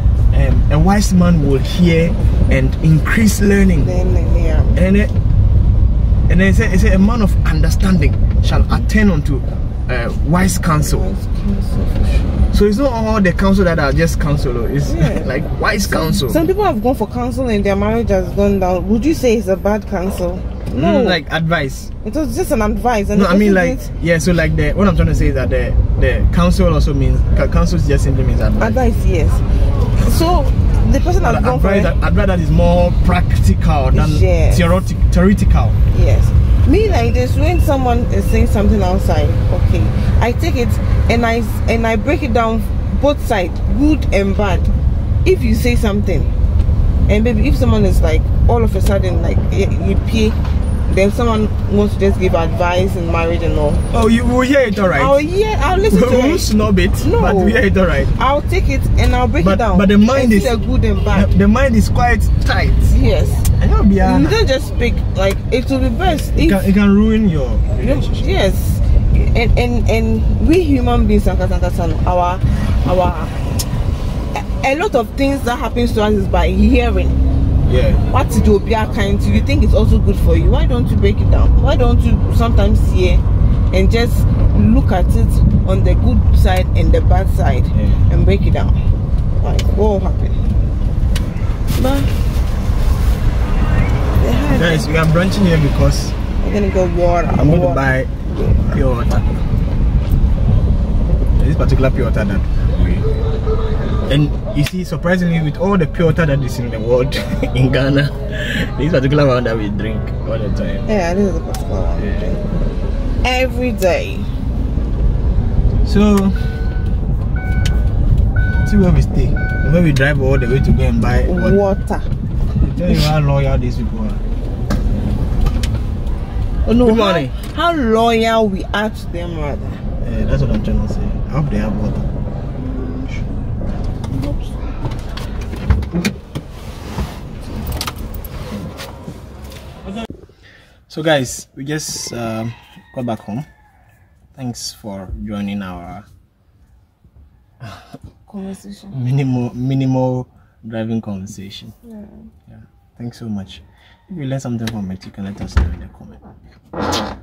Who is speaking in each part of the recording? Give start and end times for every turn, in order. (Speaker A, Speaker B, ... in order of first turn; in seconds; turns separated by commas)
Speaker A: 0.3-3.9, Speaker B: 3.8-4.8, Speaker A: 4.8-5.1, Speaker A: 6.3-11.0, Speaker B: 10.8-12.4, Speaker A: 12.5-16.4, Speaker B: 14.8-15.3, Speaker B: 15.9-21.2, Speaker A: 20.7-21.9, Speaker B: 22.0-23.9, Speaker A: 23.1-28.8, Speaker B: 28.6-29.4, Speaker B: 30.0-31.9, Speaker A: 31.2-35.8, Speaker B: 33.9-34.8, Speaker B: 35.9-46.3, Speaker B: 47.1-53.9, Speaker A: 53.9-55.1, Speaker B: 54.9-57.6, Speaker A: 55.9-58.1, Speaker B: 58.1-61.3, Speaker A: 59.4-60.5, Speaker A: 61.1-62.9, Speaker B: 62.9-63.5, Speaker A: 63.6-64.4, Speaker B: 64.0-66.6, Speaker A: 66.3-68.3, Speaker B: 67.8-73.4, Speaker B: 74.3-77.2, Speaker A: 77.7-78.0, Speaker B: 78.1-88.8, Speaker A: 87.7-88.0, Speaker B: 89.4-90.4, Speaker B: 91.7-92.1, Speaker B: 94.2-94.9, Speaker A: 94.5-96.1, Speaker B: 96.4-98.7, Speaker A: 97.3-98.1, Speaker A: 98.7-99.3, Speaker A: 101.4-103.0, Speaker A: 104.1-110.8, Speaker B: 110.8-112.4, Speaker B: 113.2-114.3, Speaker A: 115.8-116.4, Speaker A: 118.7-121.6, Speaker B: 121.2-122.1, Speaker A: 122.6-124.2, Speaker B: 126.6-129.8, Speaker A: 126.8-127.3, Speaker A: 130.0-132.1, Speaker B: 132.6-133.3, Speaker B: 134.1-134.7, Speaker A: 140.9-143.4, Speaker A: 144.3-146.1, Speaker B: 148.3-149.0, Speaker A: 148.9-151.7, Speaker B: 151.8-152.3, Speaker A: 152.5-156.2